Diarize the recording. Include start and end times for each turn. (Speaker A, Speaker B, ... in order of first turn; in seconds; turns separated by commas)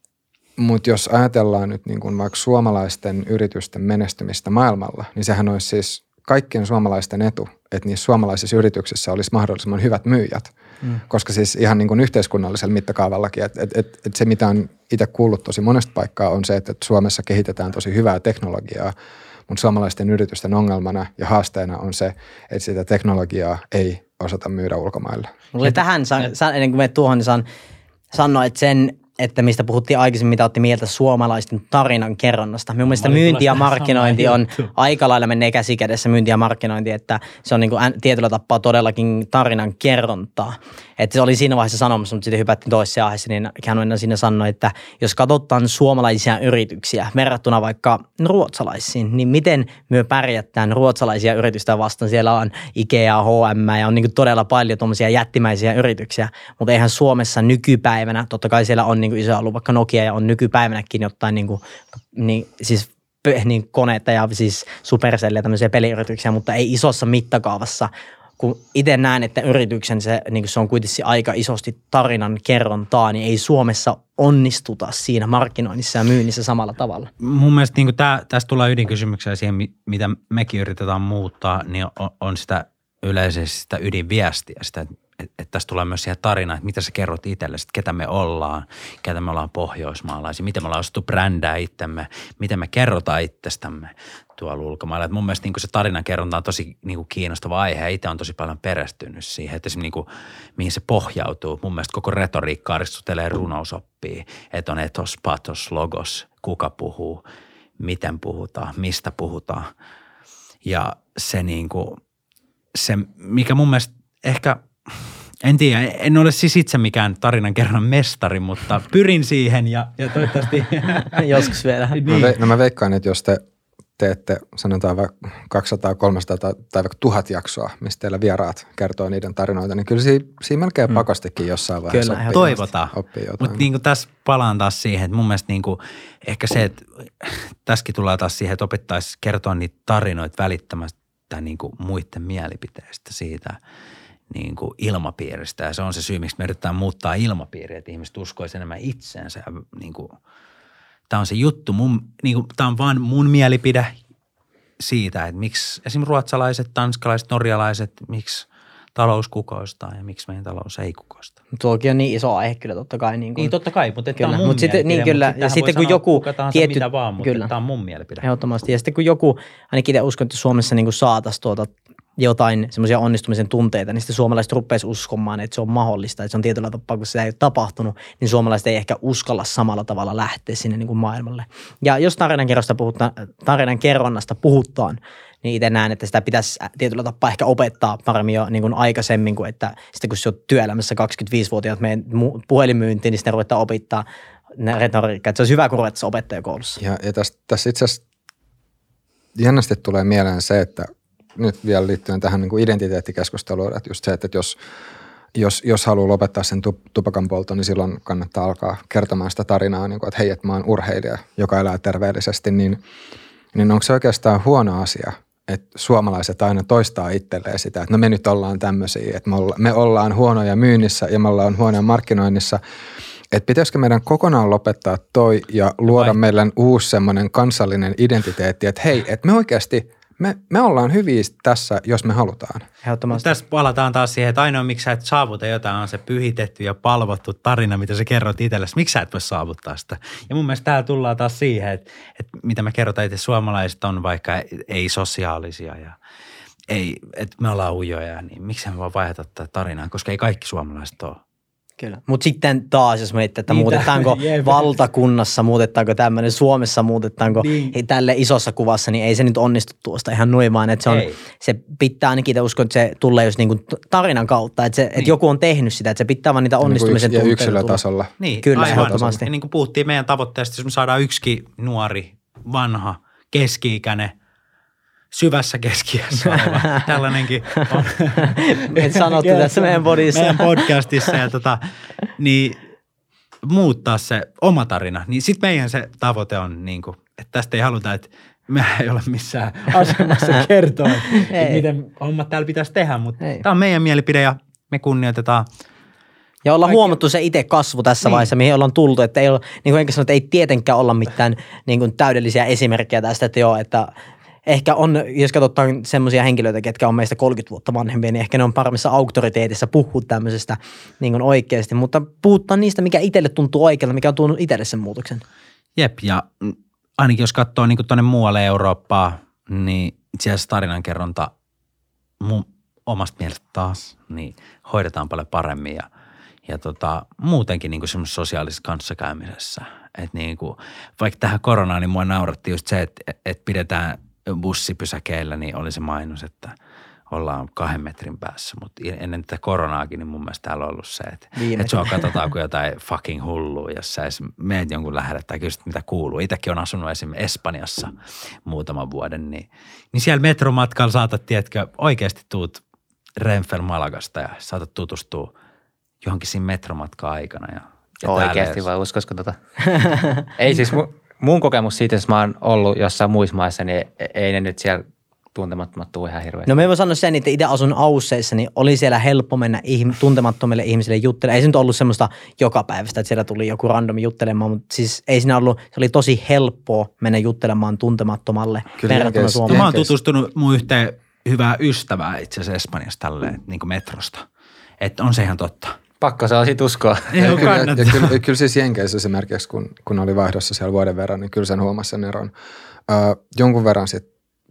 Speaker A: 0.6-10.5, Speaker A: 11.1-18.9, Speaker A: 19.5-25.3, Speaker B: 25.5-27.4, Speaker B: 28.1-77.1, Speaker C: 32.9-34.7, Speaker C: 77.2-107.2, Speaker C: 107.8-109.7, Speaker C: 110.6-112.0, Speaker C: 112.7-122.4, Speaker B: 121.0-122.0, Speaker A: 122.1-123.4, Speaker A: 124.0-133.7, Speaker B: 131.9-132.7, Speaker C: 132.3-143.6, Speaker C: 144.3-150.2, Speaker C: 151.1-154.0, Speaker C: 154.8-161.3, Speaker B: 161.6-163.5, Speaker C: 163.3-168.2, Speaker B: 164.2-167.5, Speaker B: 168.2-194.1, Speaker B: 194.6-196.8, Speaker A: 196.8-198.0, Speaker A: 199.3-204.6, Speaker A: 205.3-212.8, Speaker A: 213.5-222.6, Speaker A: 223.3-232.7, Speaker C: 225.9-226.2, Speaker B: 232.8-233.3, Speaker C: 233.1-245.9, Speaker C: 246.7-251.2, Speaker B: 251.8-267.8, Speaker C: 253.5-254.8, Speaker C: 257.3-257.8, Speaker C: 260.9-261.2, Speaker A: 266.6-269.0, Speaker C: 268.2-274.1, Speaker B: 268.4-269.2, Speaker C: 275.1-281.6, Speaker B: 278.2-280.6, Speaker C: 282.2-282.6, Speaker C: 283.4-295.5, Speaker B: 291.2-291.6, Speaker B: 296.4-303.9, Speaker C: 296.6-297.0, Speaker C: 298.0-298.3, Speaker B: 304.4-315.2, Speaker C: 315.8-321.3, Speaker C: 322.2-325.9, Speaker C: 326.4-336.6, Speaker C: 337.1-352.6, Speaker B: 341.4-342.1, Speaker C: 353.2-355.3, Speaker C: 356.0-358.6, Speaker D: 358.0-359.4, Speaker B: 359.7-360.2, Speaker D: 360.4-364.8, Speaker D: 365.3-366.6, Speaker B: 366.5-379.8, Speaker A: 378.8-379.9, Speaker C: 379.5-384.2, Speaker C: 384.8-385.8, Speaker D: 386.0-387.5, Speaker C: 387.1-388.2, Speaker A: 387.2-392.3, Speaker A: 392.9-394.0